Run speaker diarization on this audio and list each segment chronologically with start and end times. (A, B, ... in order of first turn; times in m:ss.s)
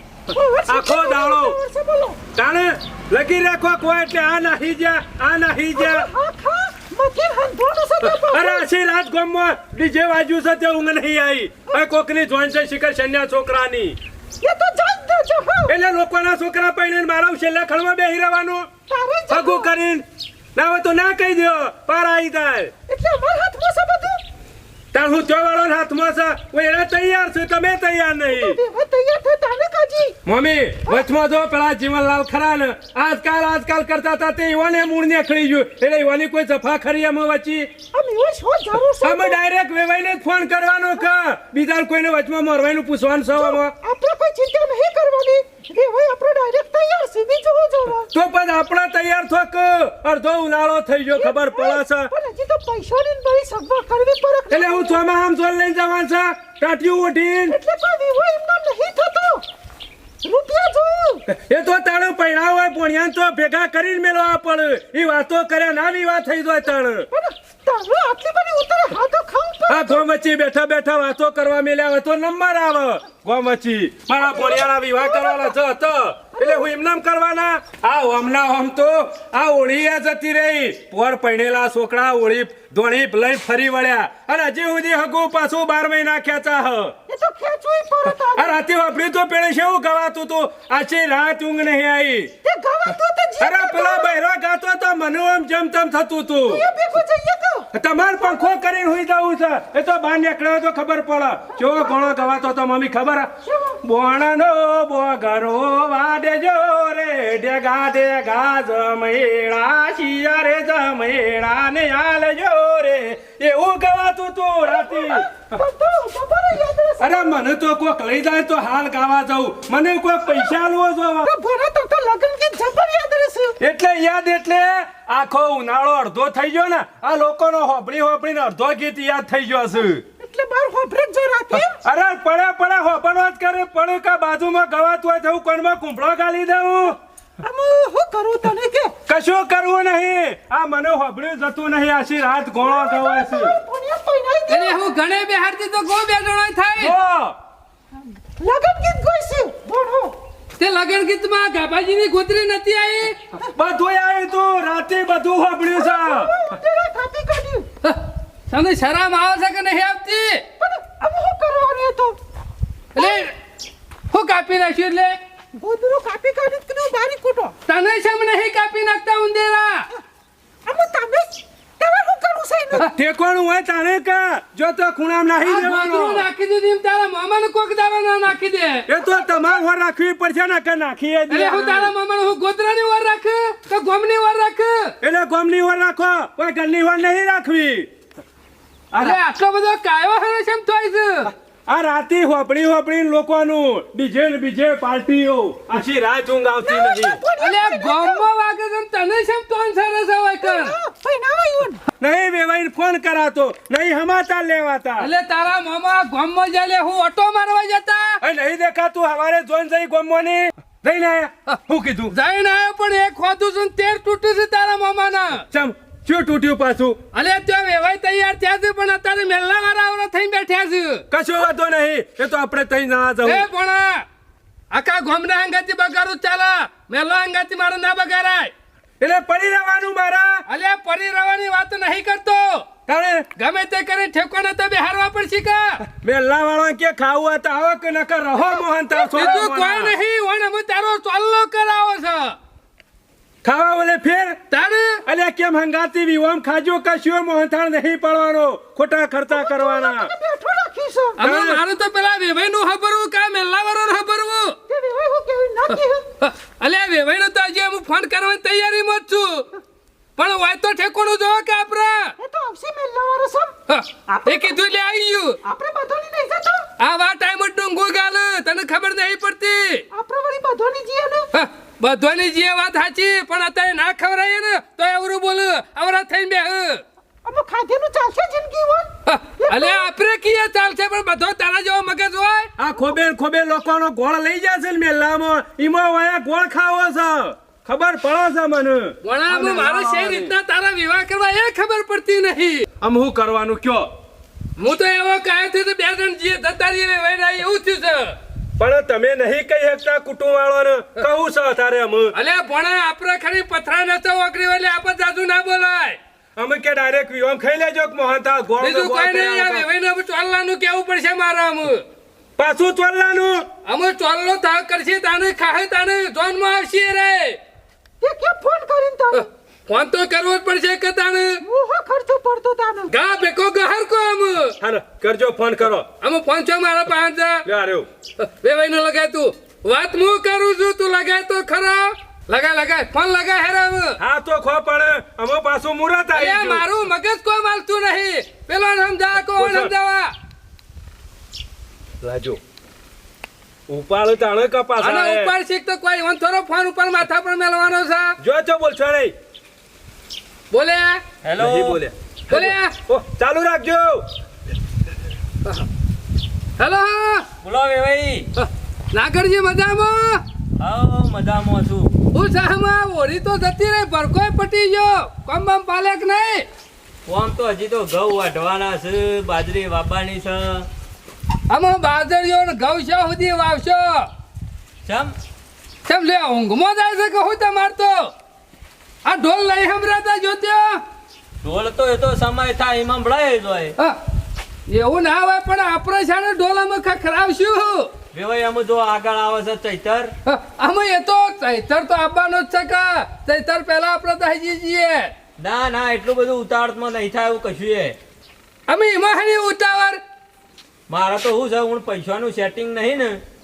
0:00.3-0:02.2 A
0:00.7-0:01.6 B
0:02.4-0:06.1 B
0:05.7-0:08.7 A
0:08.0-0:14.0 B
0:14.4-0:15.7 A
0:15.7-0:18.7 B
0:18.9-0:19.7 A
0:19.3-0:20.0 B
0:20.6-0:22.7 B
0:22.9-0:24.2 A
0:24.9-0:28.6 B
0:28.3-0:30.2 A
0:30.2-0:37.7 B
0:37.9-0:39.4 A
0:39.0-0:43.7 B
0:43.3-0:48.1 A
0:48.1-0:52.1 B
0:51.1-0:55.0 A
0:54.5-0:57.6 B
0:57.5-0:59.4 A
1:00.2-1:01.2 A
1:01.3-1:07.1 B
1:07.1-1:10.0 A
1:09.7-1:26.9 B
1:14.1-1:15.6 A
1:16.4-1:16.7 A
1:27.1-1:28.6 A
1:28.1-1:32.3 B
1:32.4-1:34.2 A
1:32.9-1:36.6 B
1:36.4-1:38.6 A
1:37.7-1:43.3 B
1:41.5-1:42.4 A
1:43.4-1:43.8 A
1:43.8-1:55.3 B
1:54.6-1:57.4 A
1:57.0-2:01.3 B
2:00.2-2:00.6 A
2:01.2-2:03.6 A
2:03.6-2:10.0 B
2:10.2-2:11.8 A
2:11.5-2:17.0 B
2:17.4-2:18.9 A
2:19.1-2:23.5 B
2:22.6-2:24.9 A
2:24.5-2:26.9 C
2:26.8-2:27.3 B
2:28.4-2:30.1 A
2:30.6-2:33.2 C
2:33.5-2:36.3 B
2:35.7-2:37.7 A
2:37.8-2:40.4 C
2:40.6-2:42.2 A
2:43.0-2:43.2 A
2:43.0-2:43.3 C
2:44.1-2:45.2 C
2:45.5-2:47.6 A
2:47.7-2:49.8 C
2:50.6-2:52.9 A
2:52.8-2:56.2 B
2:55.4-2:58.9 C
2:58.9-3:01.9 B
2:59.0-2:59.6 A
3:01.3-3:04.9 C
3:05.0-3:07.9 B
3:08.9-3:09.2 B
3:09.0-3:11.3 C
3:11.7-3:17.2 B
3:16.6-3:18.3 A
3:17.4-3:20.7 C
3:20.4-3:21.8 A
3:22.0-3:25.1 B
3:25.0-3:28.2 C
3:28.2-3:32.1 B
3:31.5-3:35.4 C
3:35.5-3:37.0 B
3:37.1-3:41.0 C
3:41.1-3:43.4 B
3:43.2-3:44.0 C
3:44.7-3:48.5 C
3:49.0-3:50.4 B
3:50.5-3:52.8 C
3:52.8-3:53.3 B
3:53.4-3:55.8 C
3:55.8-3:59.9 B
3:58.9-4:02.4 C
4:03.4-4:04.4 B
4:04.5-4:05.0 C
4:05.0-4:10.1 B
4:09.3-4:11.2 A
4:11.2-4:14.6 C
4:11.2-4:11.6 B
4:14.7-4:16.1 A
4:15.7-4:19.5 C
4:20.2-4:22.1 C
4:22.2-4:24.6 A
4:23.7-4:25.4 C
4:25.4-4:26.7 A
4:26.8-4:29.8 C
4:29.9-4:31.3 A
4:31.3-4:36.8 C
4:37.2-4:39.9 A
4:39.1-4:42.5 C
4:42.6-4:50.3 B
4:49.0-4:52.7 C
4:52.8-4:53.9 B
4:54.6-4:58.2 C
4:58.6-5:02.1 B
5:02.1-5:06.0 C
5:06.4-5:09.6 B
5:08.6-5:11.8 C
5:12.4-5:13.4 B
5:13.6-5:17.4 C
5:18.0-5:19.3 A
5:19.1-5:21.4 C
5:21.4-5:22.9 A
5:22.9-5:24.6 C
5:24.6-5:25.9 B
5:26.0-5:27.4 C
5:27.4-5:27.9 B
5:28.2-5:34.0 C
5:34.0-5:36.6 B
5:36.1-5:40.1 C
5:39.4-5:39.7 B
5:42.0-5:42.4 B
5:43.7-5:45.3 B
5:44.8-5:48.2 C
5:48.2-5:49.1 B
5:50.5-5:51.0 C
5:51.2-5:51.8 D
5:51.4-5:54.0 B
5:52.3-5:52.8 C
5:56.6-5:57.2 C
5:57.4-5:58.3 D
5:58.4-6:00.2 C
6:00.6-6:01.9 D
6:02.1-6:06.4 C
6:07.1-6:10.7 D
6:11.5-6:14.1 C
6:14.8-6:15.1 D
6:15.8-6:18.1 C
6:19.0-6:20.8 C
6:21.4-6:23.8 D
6:24.7-6:27.9 C
6:28.1-6:30.1 D
6:30.2-6:35.1 C
6:35.4-6:38.0 D
6:38.7-6:40.0 C
6:40.9-6:43.2 D